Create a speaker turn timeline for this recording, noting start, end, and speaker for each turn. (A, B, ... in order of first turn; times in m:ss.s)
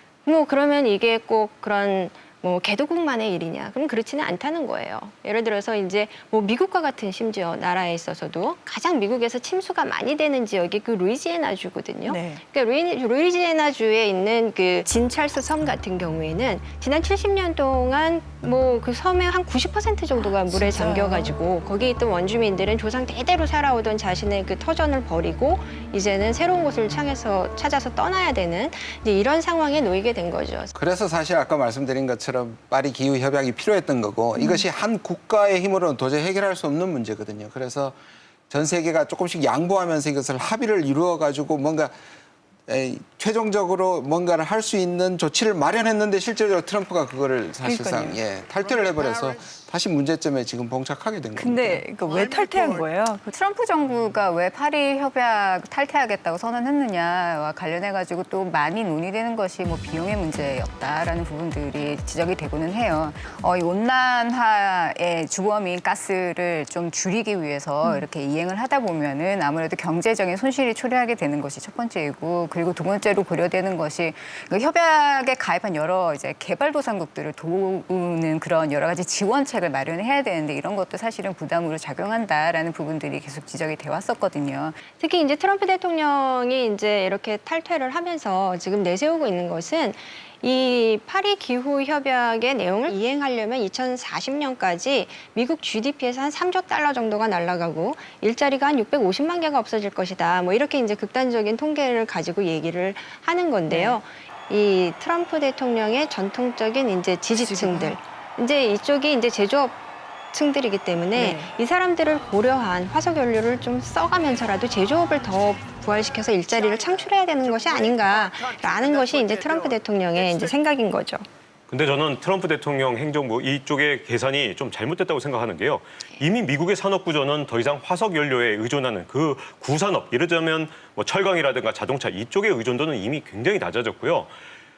0:00.2-0:30.7 A
0:12.1-0:12.4 B
0:20.2-0:21.3 B
0:30.7-0:38.0 C
0:38.5-0:41.9 C
0:42.7-0:51.8 C
0:47.6-0:48.2 B
0:51.3-0:53.3 B
0:53.3-1:24.8 D
1:25.0-1:49.8 A
1:43.7-1:44.0 B
1:47.3-1:48.0 B
1:50.3-2:01.2 A
1:51.1-1:51.5 B
2:01.7-2:14.3 E